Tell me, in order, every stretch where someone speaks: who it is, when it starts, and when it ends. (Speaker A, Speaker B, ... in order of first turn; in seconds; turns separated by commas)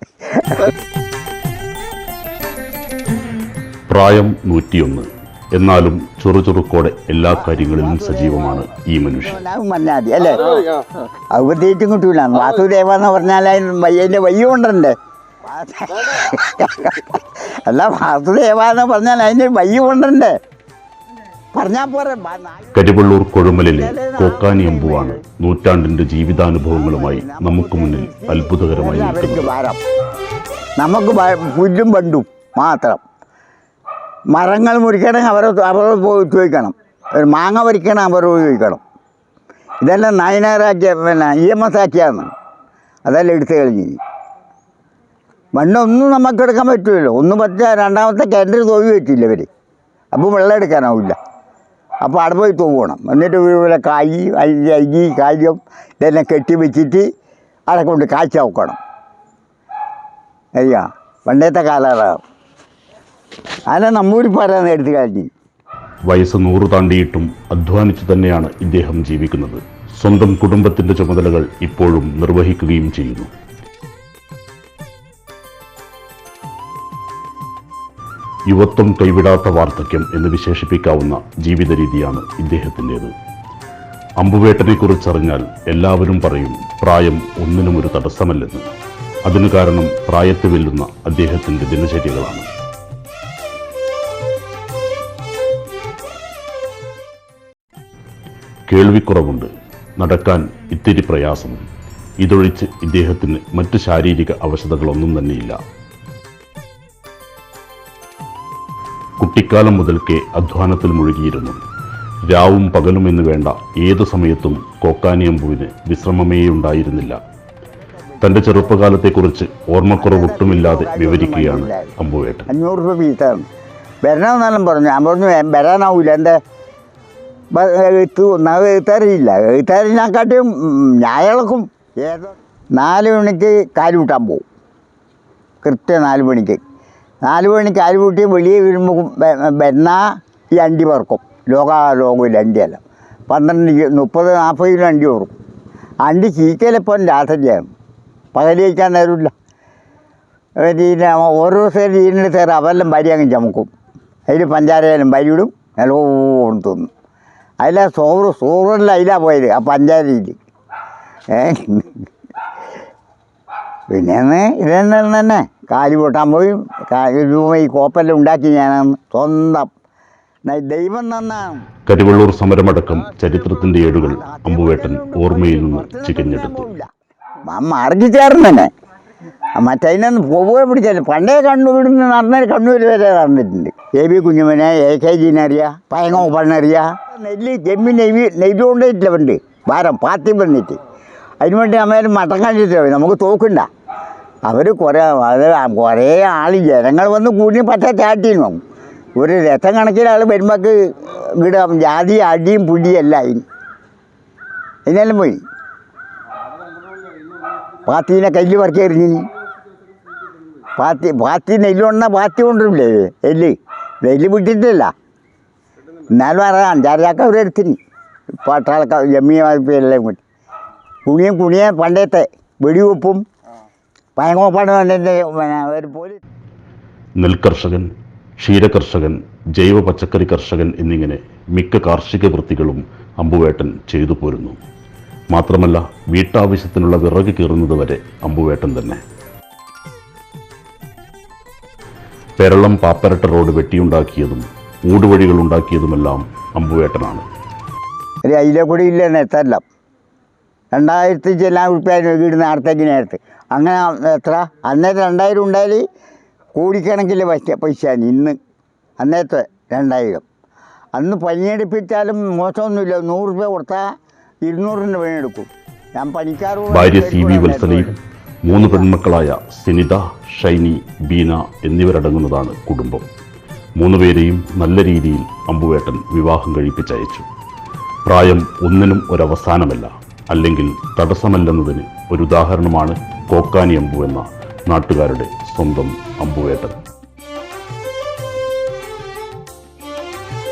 Speaker A: 0.3-0.7, Speaker B: 3.9-9.4, Speaker A: 7.3-8.7, Speaker A: 9.2-10.6, Speaker A: 11.3-20.4, Speaker A: 21.5-22.7, Speaker B: 22.7-29.5, Speaker A: 23.6-25.2, Speaker A: 26.7-29.8, Speaker A: 30.8-33.0, Speaker A: 34.3-38.8, Speaker A: 39.8-42.3, Speaker A: 43.0-44.0, Speaker A: 45.5-49.5, Speaker A: 50.1-51.2, Speaker A: 52.0-57.0, Speaker A: 57.7-58.8, Speaker A: 60.6-62.2, Speaker A: 63.7-65.3, Speaker B: 66.1-73.3, Speaker B: 78.5-83.1, Speaker B: 84.2-88.7, Speaker B: 89.2-92.5, Speaker B: 98.7-101.6, Speaker B: 102.2-105.6, Speaker B: 109.2-111.6, Speaker B: 112.3-117.2, Speaker B: 118.2-122.5, Speaker A: 120.0-121.9, Speaker A: 122.5-123.5, Speaker A: 124.0-126.4, Speaker A: 127.5-134.4, Speaker A: 135.6-136.6, Speaker A: 137.2-140.0, Speaker A: 140.6-145.3, Speaker A: 146.0-147.7, Speaker A: 148.3-149.3, Speaker A: 150.6-153.7, Speaker A: 154.3-156.9, Speaker A: 157.6-160.4, Speaker A: 161.3-162.0, Speaker A: 163.9-169.7, Speaker A: 170.4-171.7, Speaker B: 171.8-176.7, Speaker A: 174.0-176.9, Speaker A: 177.4-178.7, Speaker A: 179.6-190.8, Speaker A: 191.4-193.7, Speaker A: 194.5-198.6, Speaker A: 199.2-203.4, Speaker A: 204.8-205.4, Speaker A: 207.8-209.3, Speaker A: 210.8-214.9, Speaker A: 216.1-217.8, Speaker A: 218.4-220.2, Speaker A: 221.1-223.2, Speaker A: 224.2-226.2, Speaker B: 227.2-227.9, Speaker B: 228.4-234.6, Speaker B: 235.3-239.0, Speaker B: 242.4-247.2, Speaker A: 248.3-249.6, Speaker A: 250.7-255.8, Speaker A: 256.5-258.4, Speaker A: 259.0-260.2, Speaker A: 260.9-263.8, Speaker A: 264.4-267.9, Speaker B: 266.7-273.1, Speaker A: 268.5-268.9, Speaker B: 273.8-277.2, Speaker B: 278.0-286.8